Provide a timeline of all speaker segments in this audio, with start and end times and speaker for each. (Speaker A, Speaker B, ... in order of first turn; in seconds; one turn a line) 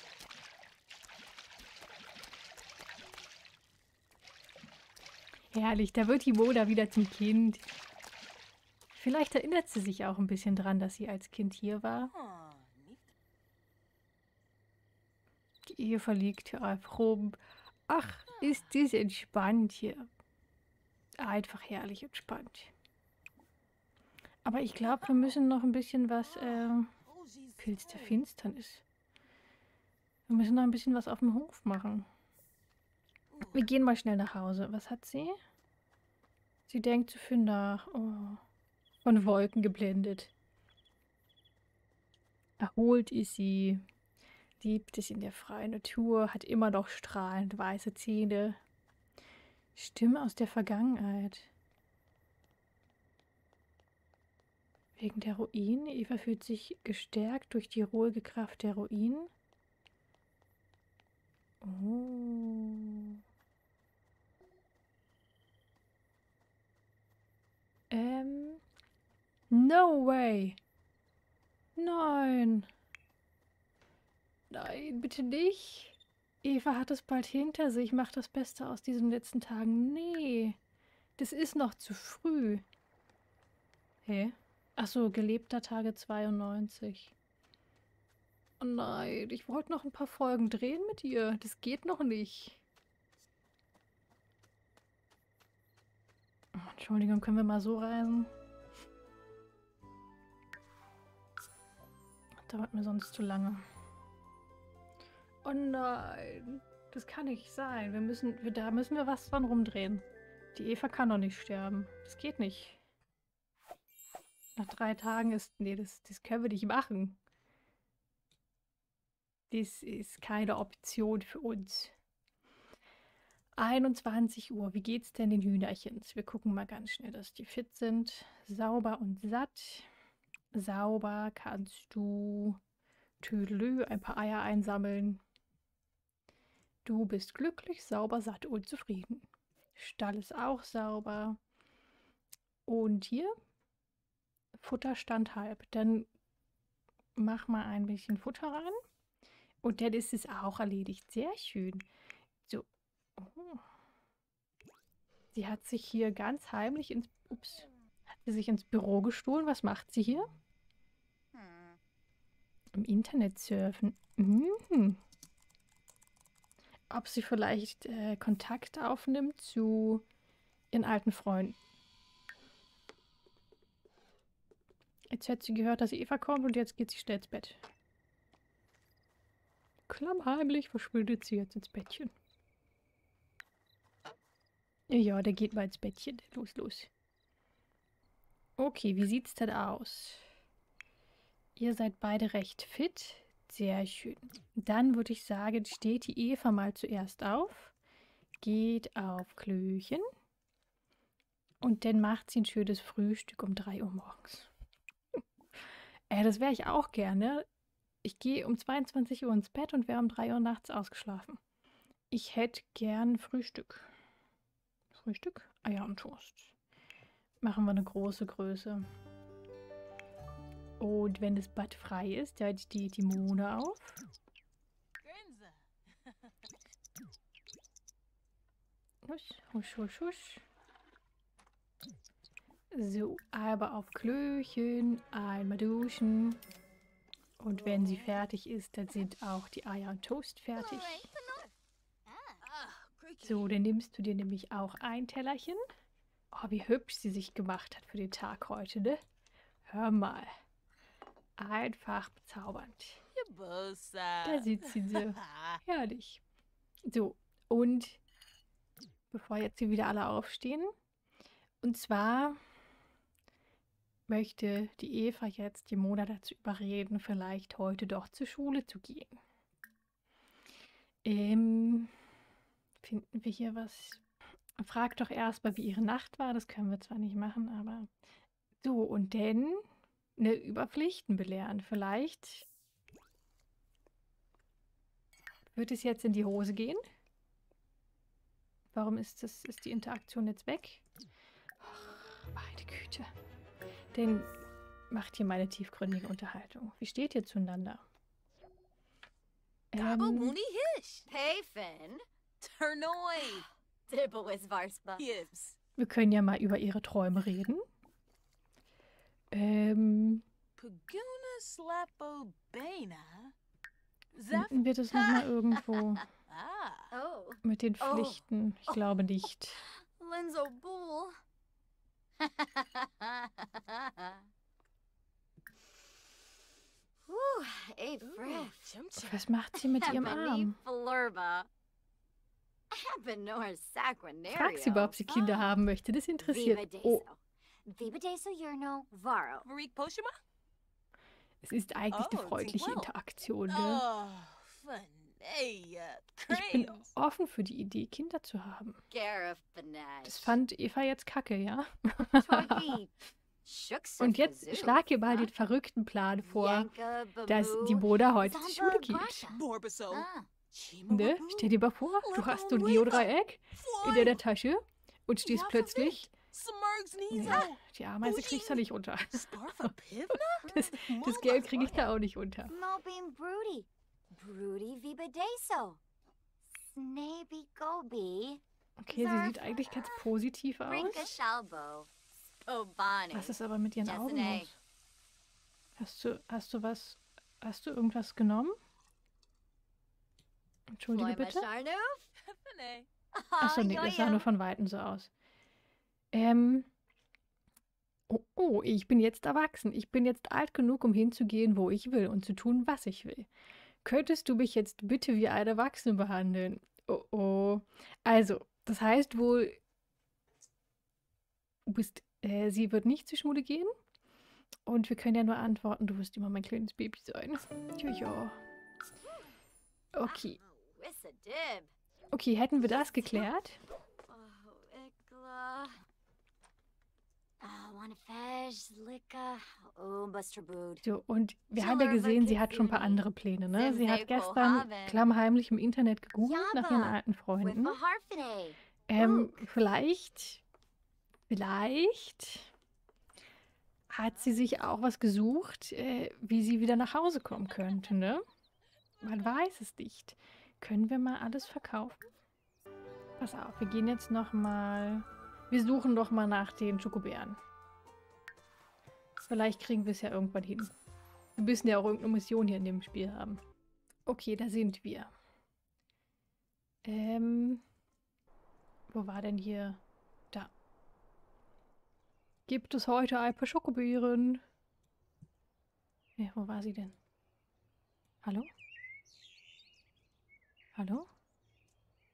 Speaker A: 5.5-7.7
Speaker A: 8.9-12.1
Speaker B: 12.1-13.1
Speaker A: 15.7-20.1
Speaker B: 18.3-18.7
Speaker A: 21.2-22.7
Speaker A: 24.4-26.9
Speaker B: 25.0-25.3
Speaker B: 26.2-28.2
Speaker A: 27.6-28.8
Speaker A: 30.3-32.1
Speaker B: 33.3-33.7
Speaker A: 33.5-35.4
Speaker A: 36.7-38.4
Speaker A: 39.0-40.3
Speaker A: 42.6-43.8
Speaker A: 44.6-48.6
Speaker A: 49.7-51.5
Speaker A: 55.0-59.3
Speaker A: 61.6-63.2
Speaker A: 67.9-68.6
Speaker A: 69.5-70.6
Speaker A: 71.8-72.7
Speaker A: 74.5-80.6
Speaker A: 81.2-82.6
Speaker A: 84.0-87.1
Speaker A: 88.6-92.6
Speaker A: 96.5-98.3
Speaker A: 102.4-103.6
Speaker A: 105.4-112.8
Speaker A: 114.5-117.2
Speaker A: 119.5-121.9
Speaker A: 123.6-129.9
Speaker A: 130.5-132.6
Speaker A: 133.2-135.2
Speaker A: 136.8-141.4
Speaker A: 142.7-143.3
Speaker A: 144.6-146.1
Speaker A: 147.2-148.8
Speaker A: 149.6-151.9
Speaker A: 152.4-153.6
Speaker A: 155.3-160.3
Speaker C: 161.3-161.8
Speaker A: 162.7-165.0
Speaker A: 166.9-170.1
Speaker A: 170.7-171.6
Speaker A: 175.1-177.6
Speaker A: 179.9-182.1
Speaker A: 184.9-186.9
Speaker A: 188.6-190.2
Speaker A: 191.6-197.7
Speaker A: 198.4-200.0
Speaker A: 201.6-204.5
Speaker A: 206.1-207.4
Speaker A: 208.0-211.4
Speaker A: 212.1-213.9
Speaker A: 214.9-216.5
Speaker A: 217.4-218.8
Speaker A: 220.8-224.0
Speaker B: 225.0-226.3
Speaker A: 229.0-230.4
Speaker A: 232.7-236.4
Speaker A: 237.4-241.1
Speaker B: 237.7-238.2
Speaker C: 240.5-241.5
Speaker C: 242.1-242.4
Speaker B: 242.4-243.5
Speaker A: 243.2-245.6
Speaker A: 246.3-249.0
Speaker A: 249.6-250.3
Speaker A: 251.4-253.0
Speaker B: 253.1-255.6
Speaker A: 254.2-256.2
Speaker A: 256.9-258.0
Speaker A: 259.1-260.7
Speaker A: 261.6-262.4
Speaker A: 264.1-269.2
Speaker A: 271.0-271.9
Speaker A: 272.8-274.0
Speaker A: 274.6-277.9
Speaker A: 278.6-279.6
Speaker A: 280.2-282.4
Speaker A: 285.5-286.8
Speaker A: 288.7-290.8
Speaker A: 291.6-293.1
Speaker A: 293.9-294.3
Speaker A: 294.9-297.8
Speaker A: 299.7-300.4
Speaker B: 299.8-301.1
Speaker C: 301.1-302.0
Speaker B: 302.4-303.4
Speaker C: 303.1-305.1
Speaker B: 305.0-305.6
Speaker A: 305.8-307.6
Speaker A: 309.3-310.2
Speaker B: 310.6-313.3
Speaker B: 314.1-315.3
Speaker A: 314.3-316.1
Speaker B: 316.3-316.9
Speaker C: 316.9-318.2
Speaker A: 317.4-319.6
Speaker C: 319.6-321.2
Speaker C: 322.2-324.2
Speaker C: 327.1-328.6
Speaker B: 328.0-329.3
Speaker A: 328.9-330.6
Speaker C: 329.6-331.5
Speaker C: 332.7-335.6
Speaker A: 334.3-337.0
Speaker C: 336.2-339.5
Speaker B: 339.4-340.2
Speaker A: 341.4-343.8
Speaker B: 341.9-342.9
Speaker B: 343.5-346.9
Speaker A: 346.3-348.8
Speaker C: 348.9-350.4
Speaker A: 350.0-352.8
Speaker C: 352.1-352.9
Speaker C: 353.4-355.3
Speaker A: 354.0-356.7
Speaker C: 356.2-360.3
Speaker A: 357.2-359.3
Speaker B: 359.3-364.2
Speaker A: 360.9-366.1
Speaker B: 365.2-371.9
Speaker A: 367.1-369.7
Speaker A: 370.4-372.6
Speaker C: 372.5-375.8
Speaker C: 376.5-380.1
Speaker A: 378.8-381.1
Speaker C: 380.7-381.9
Speaker C: 382.4-384.5
Speaker A: 383.1-384.6
Speaker A: 385.8-388.6
Speaker A: 390.7-391.5
Speaker C: 390.9-392.1
Speaker B: 392.2-392.9
Speaker C: 393.1-394.3
Speaker A: 393.4-395.1
Speaker A: 396.1-396.7
Speaker A: 398.1-403.3
Speaker A: 403.8-409.6
Speaker A: 411.7-413.7
Speaker A: 414.6-418.4
Speaker A: 419.9-420.4
Speaker C: 420.0-421.7
Speaker A: 422.1-423.6
Speaker C: 424.0-425.8
Speaker C: 427.4-430.8
Speaker A: 430.8-437.8
Speaker C: 431.5-435.0
Speaker C: 436.2-439.4
Speaker A: 438.9-440.4
Speaker A: 441.3-442.5
Speaker A: 443.9-448.2
Speaker A: 449.0-452.0
Speaker A: 453.2-457.4
Speaker A: 459.2-460.7
Speaker A: 461.4-463.4
Speaker A: 464.1-465.1
Speaker A: 466.8-467.6
Speaker A: 468.9-469.8
Speaker A: 472.5-474.4
Speaker A: 476.2-477.0
Speaker A: 478.2-478.5
Speaker A: 480.8-481.1